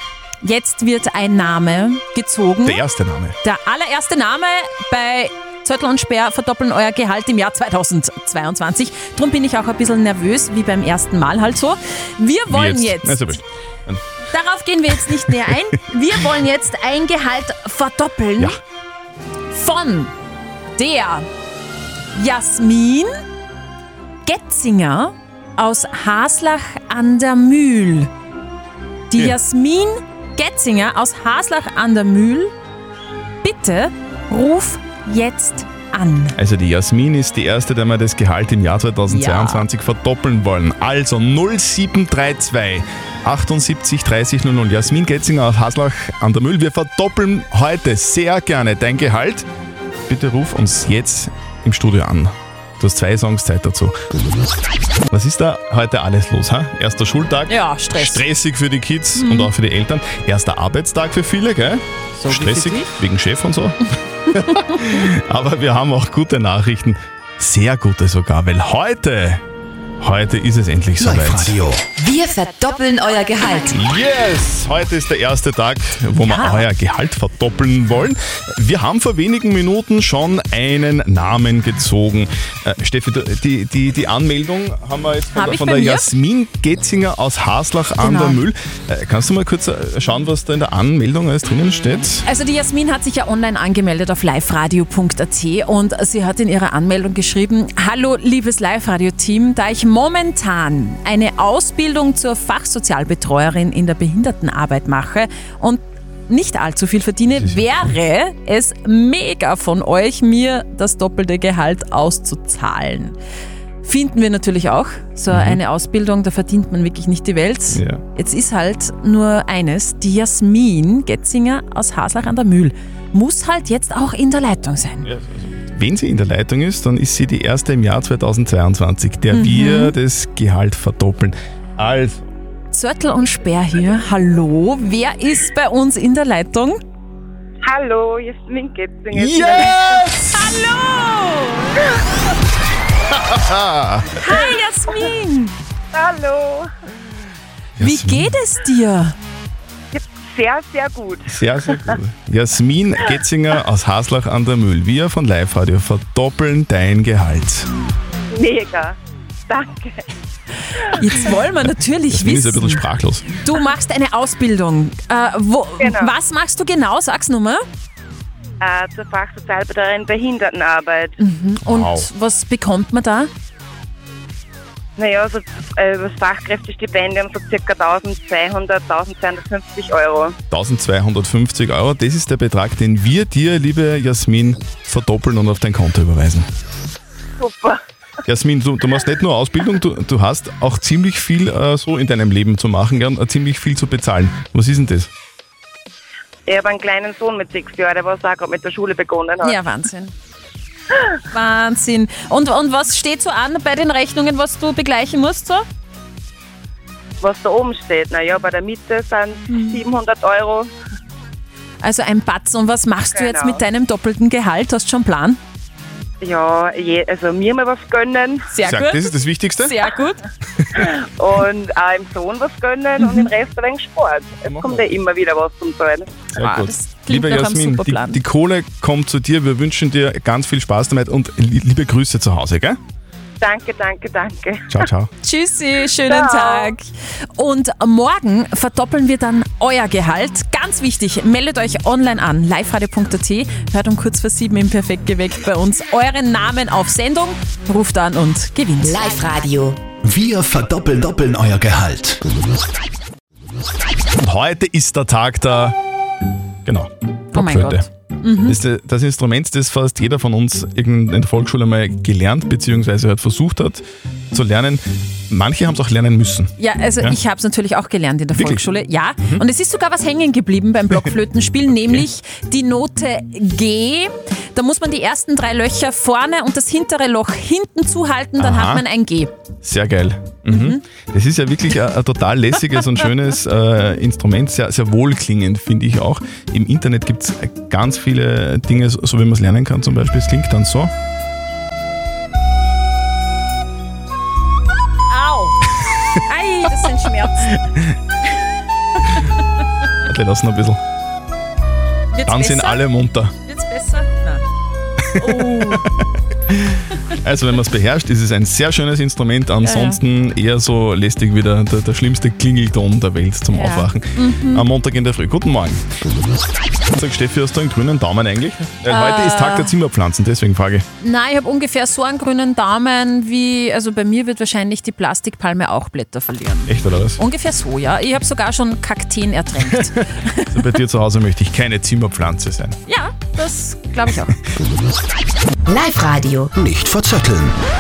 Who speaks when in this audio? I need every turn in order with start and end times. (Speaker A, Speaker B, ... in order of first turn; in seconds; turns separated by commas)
Speaker A: 0.4-2.8, Speaker B: 2.7-3.4, Speaker A: 3.4-13.4, Speaker B: 12.5-14.0, Speaker A: 14.3-18.6, Speaker A: 19.5-20.1, Speaker A: 20.8-21.2, Speaker A: 22.1-23.1, Speaker A: 24.2-28.1, Speaker A: 29.1-32.5, Speaker A: 33.4-36.4, Speaker B: 36.4-49.5, Speaker A: 39.1-39.7, Speaker B: 50.1-54.0, Speaker B: 55.1-63.8, Speaker A: 57.5-58.2, Speaker A: 59.2-59.5, Speaker B: 64.3-69.4, Speaker B: 70.0-71.6, Speaker C: 71.0-71.8, Speaker D: 72.0-73.8, Speaker B: 73.7-92.2, Speaker A: 76.2-76.7, Speaker A: 85.3-86.1, Speaker A: 88.0-88.4, Speaker A: 92.2-113.2, Speaker A: 113.8-125.1, Speaker B: 115.3-115.6, Speaker B: 117.8-118.0, Speaker B: 125.0-132.2, Speaker A: 129.3-129.9, Speaker A: 132.7-136.8, Speaker E: 137.7-140.0, Speaker B: 139.2-140.6, Speaker A: 140.3-141.9, Speaker B: 143.2-144.2, Speaker A: 144.2-145.5, Speaker E: 145.9-146.7, Speaker B: 147.8-148.3, Speaker A: 147.8-149.2, Speaker E: 149.9-151.9, Speaker B: 151.3-157.7, Speaker E: 158.3-159.0, Speaker E: 159.5-160.1, Speaker E: 160.8-161.2, Speaker A: 160.9-167.6, Speaker B: 162.1-163.3, Speaker E: 165.8-166.1, Speaker E: 168.6-171.2, Speaker A: 171.2-173.3, Speaker B: 171.6-172.1, Speaker E: 175.0-180.4, Speaker B: 180.5-186.5, Speaker E: 187.4-187.8, Speaker B: 188.3-195.1, Speaker E: 196.5-199.6, Speaker A: 199.4-200.1, Speaker A: 201.3-205.7, Speaker E: 207.2-210.7, Speaker A: 209.5-209.8, Speaker A: 211.8-215.4, Speaker E: 213.1-213.7, Speaker E: 216.2-218.5, Speaker A: 218.5-219.1, Speaker B: 218.6-219.7, Speaker A: 219.6-220.2, Speaker E: 220.8-226.3, Speaker A: 223.0-223.3, Speaker B: 224.5-224.7, Speaker B: 226.3-232.8, Speaker A: 226.4-228.2, Speaker E: 233.4-234.9, Speaker B: 234.7-235.1, Speaker A: 235.2-249.2, Speaker E: 236.1-236.7, Speaker D: 248.8-249.7, Speaker C: 250.0-252.2, Speaker B: 254.2-255.8, Speaker B: 256.6-257.9, Speaker A: 257.3-258.6, Speaker B: 258.4-267.2, Speaker A: 266.6-279.3, Speaker B: 268.4-268.6, Speaker B: 278.4-278.8, Speaker B: 279.6-290.9, Speaker A: 280.5-280.8, Speaker A: 295.1-295.6, Speaker A: 296.2-297.5, Speaker B: 300.1-300.8, Speaker A: 302.1-302.9, Speaker B: 302.3-303.3, Speaker A: 303.4-304.4, Speaker A: 305.2-305.9, Speaker B: 305.2-305.9, Speaker B: 307.2-315.8, Speaker A: 309.6-310.0, Speaker A: 313.5-314.7, Speaker B: 316.9-320.9, Speaker A: 318.9-319.7, Speaker A: 321.0-330.7, Speaker B: 326.7-327.2, Speaker B: 330.5-332.8, Speaker A: 332.9-334.4, Speaker D: 335.7-336.2, Speaker C: 336.6-337.6